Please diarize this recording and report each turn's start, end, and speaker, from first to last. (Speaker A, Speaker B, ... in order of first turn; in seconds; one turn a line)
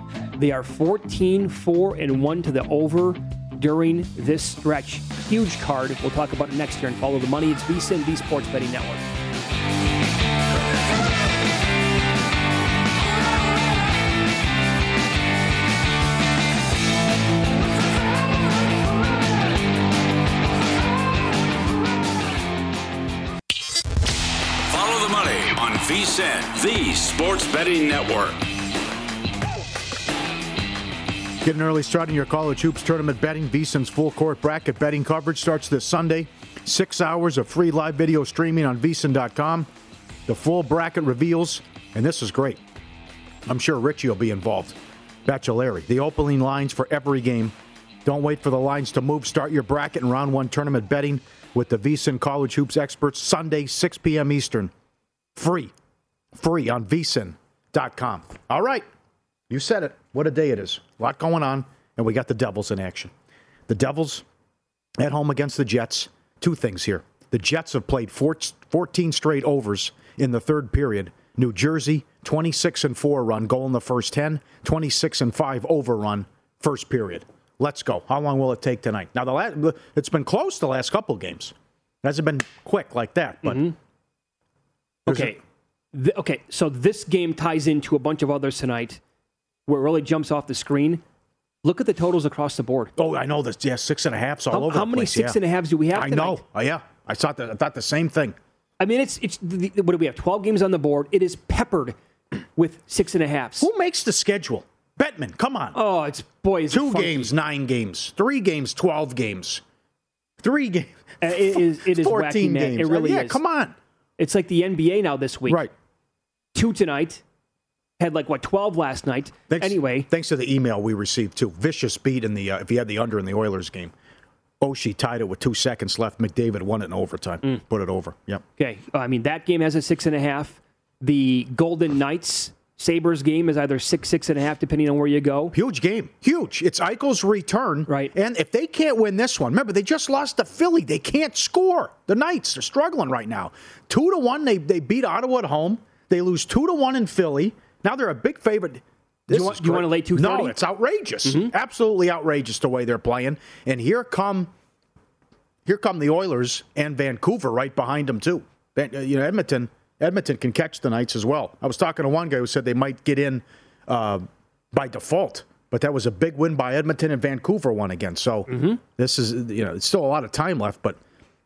Speaker A: 0.3-9.1
Speaker B: 24.7-28.5
Speaker C: 31.4-39.7
Speaker C: 40.3-42.6
Speaker C: 43.5-54.7
Speaker C: 55.4-55.7
Speaker C: 56.3-58.9
Speaker C: 59.5-63.1
Speaker C: 63.7-64.2
Speaker C: 65.0-83.7
Speaker A: 83.4-83.8
Speaker A: 85.1-85.4
Speaker C: 85.1-85.4
Speaker A: 85.9-89.0
Speaker A: 89.7-91.0
Speaker A: 91.6-92.9
Speaker C: 93.0-95.4
Speaker A: 94.5-96.4
Speaker C: 95.9-98.4
Speaker A: 98.8-102.0
Speaker A: 102.6-103.7
Speaker C: 103.6-105.8
Speaker A: 105.7-107.3
Speaker C: 106.7-109.6
Speaker C: 110.4-113.8
Speaker A: 111.2-113.4
Speaker A: 114.2-115.7
Speaker C: 115.5-115.7
Speaker A: 116.5-117.2
Speaker A: 118.0-120.1
Speaker C: 119.5-123.9
Speaker C: 124.6-128.4
Speaker A: 128.6-135.6
Speaker C: 135.5-154.5
Speaker A: 149.3-150.6
Speaker A: 151.2-151.5
Speaker C: 155.7-171.0
Speaker A: 168.5-168.8